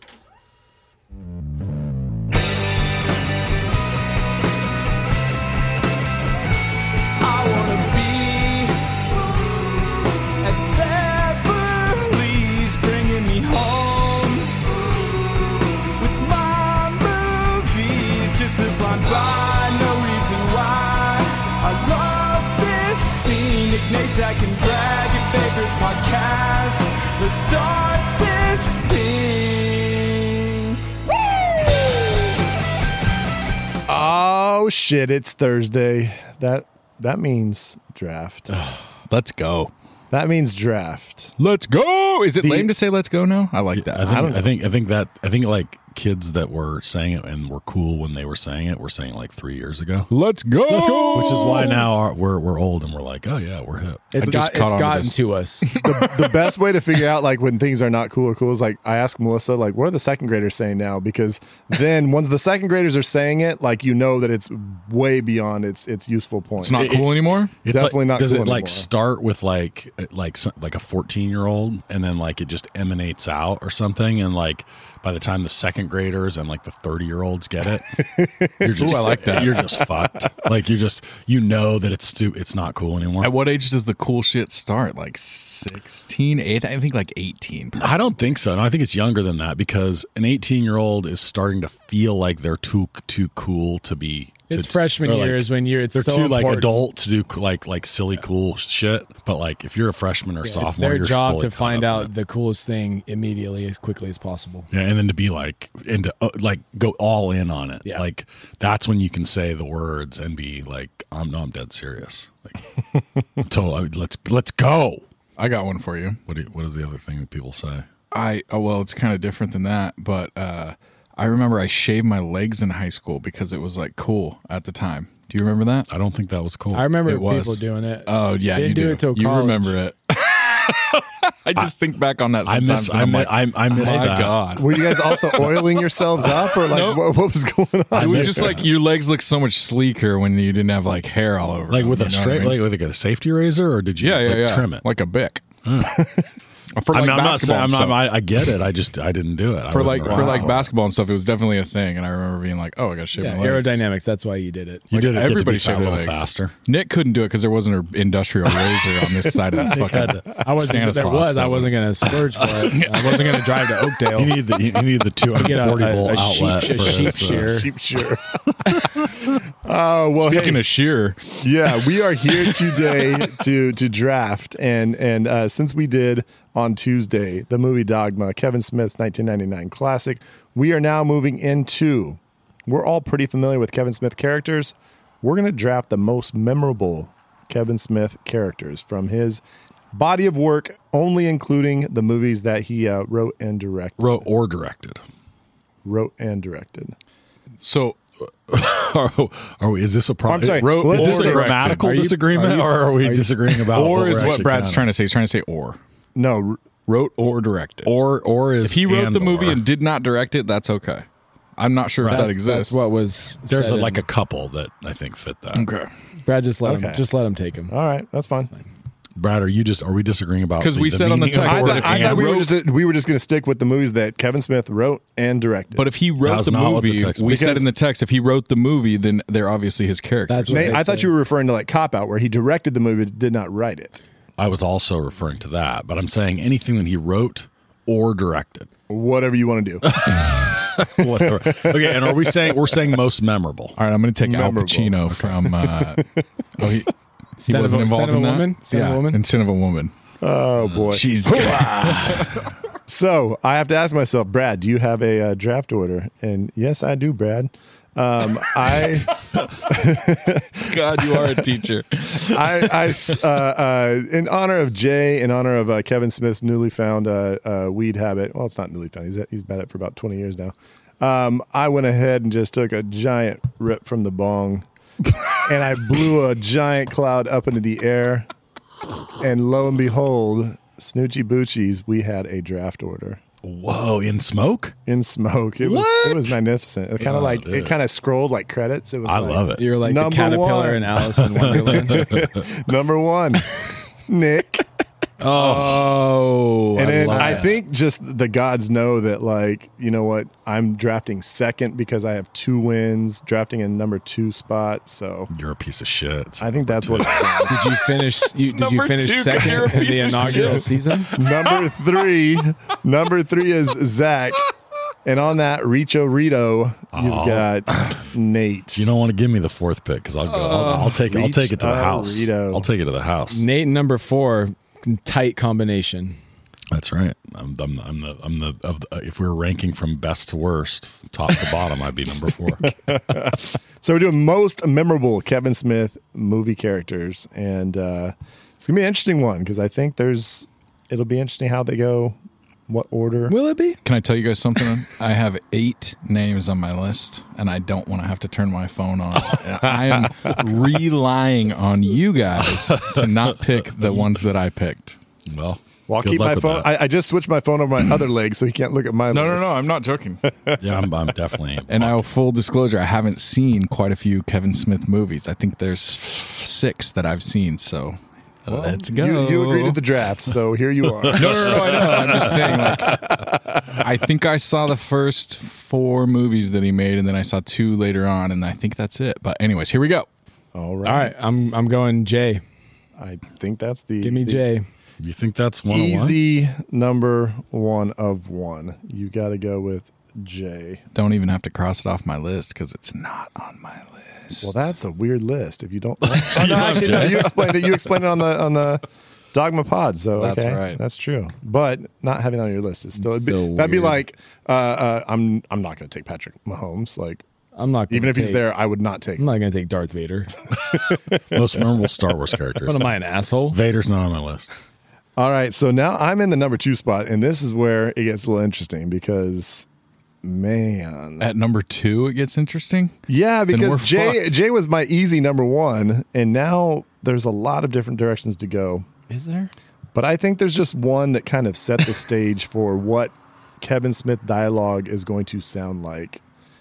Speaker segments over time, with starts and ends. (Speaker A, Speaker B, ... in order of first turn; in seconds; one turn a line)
Speaker A: 7.2-8.8
Speaker A: 9.8-14.6
Speaker A: 15.1-32.2
Speaker B: 33.9-38.5
Speaker C: 38.6-38.8
Speaker D: 39.1-39.7
Speaker B: 40.1-41.4
Speaker D: 41.4-44.1
Speaker B: 42.4-42.7
Speaker E: 43.7-50.1
Speaker B: 44.1-44.5
Speaker D: 50.1-51.8
Speaker C: 50.8-51.5
Speaker E: 51.1-54.1
Speaker C: 54.1-55.7
Speaker D: 54.2-56.5
Speaker B: 55.8-66.9
Speaker D: 66.6-67.5
Speaker E: 66.7-78.1
Speaker B: 67.7-68.9
Speaker B: 77.9-80.3
Speaker E: 78.6-83.3
Speaker D: 78.6-79.6
Speaker D: 83.2-87.9
Speaker E: 87.8-102.1
Speaker C: 94.5-96.8
Speaker C: 100.4-104.7
Speaker E: 104.7-112.8
Speaker E: 113.4-115.0
Speaker D: 115.4-116.2
Speaker E: 116.3-117.9
Speaker D: 118.1-125.9
Speaker E: 125.9-127.0
Speaker C: 126.7-129.8
Speaker D: 127.0-135.8
Speaker E: 132.5-134.5
Speaker B: 133.8-138.6
Speaker D: 136.7-137.0
Speaker E: 137.9-138.7
Speaker D: 138.0-142.6
Speaker E: 141.7-144.8
Speaker D: 144.0-145.4
Speaker E: 145.6-146.1
Speaker B: 145.9-146.3
Speaker D: 146.7-148.5
Speaker E: 146.9-150.7
Speaker D: 149.7-153.8
Speaker B: 150.1-150.5
Speaker C: 153.2-154.9
Speaker E: 154.9-156.5
Speaker D: 154.9-163.8
Speaker E: 158.6-160.3
Speaker C: 160.4-164.4
Speaker E: 164.1-167.7
Speaker C: 165.3-167.7
Speaker B: 166.7-170.7
Speaker D: 170.2-171.4
Speaker B: 171.4-189.4
Speaker D: 172.4-172.8
Speaker B: 189.9-194.2
Speaker E: 194.0-195.0
Speaker B: 195.8-197.0
Speaker D: 197.6-198.0
Speaker E: 198.2-204.9
Speaker B: 200.3-201.6
Speaker D: 200.6-201.8
Speaker C: 201.6-203.3
Speaker D: 203.7-205.8
Speaker B: 206.2-206.6
Speaker D: 206.9-207.9
Speaker E: 207.8-209.6
Speaker D: 208.6-211.1
Speaker D: 211.6-212.8
Speaker E: 212.0-212.3
Speaker C: 212.1-214.1
Speaker E: 213.5-215.7
Speaker D: 215.6-215.9
Speaker C: 216.2-217.7
Speaker B: 216.6-217.0
Speaker B: 217.7-218.5
Speaker E: 219.2-222.4
Speaker D: 220.6-222.5
Speaker B: 221.4-225.9
Speaker D: 225.8-230.8
Speaker E: 226.2-227.6
Speaker B: 227.3-227.7
Speaker C: 230.3-231.1
Speaker B: 230.5-234.0
Speaker E: 234.4-238.7
Speaker B: 238.9-242.6
Speaker E: 239.8-243.8
Speaker D: 243.8-249.9
Speaker B: 244.2-245.0
Speaker E: 245.1-245.7
Speaker C: 247.4-249.2
Speaker B: 250.2-251.1
Speaker E: 250.6-251.0
Speaker D: 250.9-252.5
Speaker C: 251.3-252.3
Speaker B: 252.9-261.4
Speaker D: 260.6-263.2
Speaker B: 262.2-274.7
Speaker B: 275.2-278.3
Speaker B: 279.2-283.2
Speaker E: 283.4-284.8
Speaker B: 284.9-294.7
Speaker E: 285.6-286.4
Speaker E: 287.0-287.8
Speaker E: 289.1-289.7
Speaker C: 289.6-292.2
Speaker E: 291.2-292.5
Speaker E: 295.2-296.1
Speaker B: 295.3-296.1
Speaker D: 295.4-297.5
Speaker B: 296.7-305.3
Speaker C: 296.8-297.6
Speaker E: 305.3-307.6
Speaker B: 306.4-307.7
Speaker C: 307.5-311.1
Speaker D: 308.2-312.1
Speaker B: 311.1-314.5
Speaker B: 315.1-318.9
Speaker E: 316.9-318.1
Speaker E: 318.7-323.5
Speaker D: 320.3-320.9
Speaker B: 321.0-322.7
Speaker C: 323.3-326.2
Speaker E: 326.7-332.8
Speaker B: 332.6-342.2
Speaker B: 342.7-343.4
Speaker C: 343.3-343.8
Speaker D: 343.8-355.0
Speaker E: 352.4-354.2
Speaker E: 355.3-356.8
Speaker B: 355.9-359.7
Speaker D: 359.1-360.2
Speaker B: 360.2-360.9
Speaker E: 360.6-362.0
Speaker D: 361.7-369.8
Speaker B: 368.5-372.0
Speaker E: 371.0-372.2
Speaker D: 371.1-380.1
Speaker C: 371.3-373.2
Speaker B: 380.5-381.2
Speaker C: 380.8-382.4
Speaker B: 383.0-384.5
Speaker C: 384.0-384.7
Speaker E: 385.0-386.2
Speaker B: 385.7-390.8
Speaker D: 390.9-394.6
Speaker B: 394.4-407.2
Speaker E: 396.2-397.2
Speaker D: 396.3-397.5
Speaker D: 400.2-400.8
Speaker C: 403.0-404.0
Speaker C: 407.6-408.5
Speaker B: 407.9-409.3
Speaker C: 409.2-410.3
Speaker B: 410.6-411.7
Speaker E: 411.3-414.5
Speaker C: 412.6-413.6
Speaker B: 415.2-419.7
Speaker B: 420.2-421.3
Speaker D: 421.2-422.9
Speaker B: 423.1-428.9
Speaker D: 423.5-424.3
Speaker C: 429.1-429.5
Speaker B: 429.9-436.2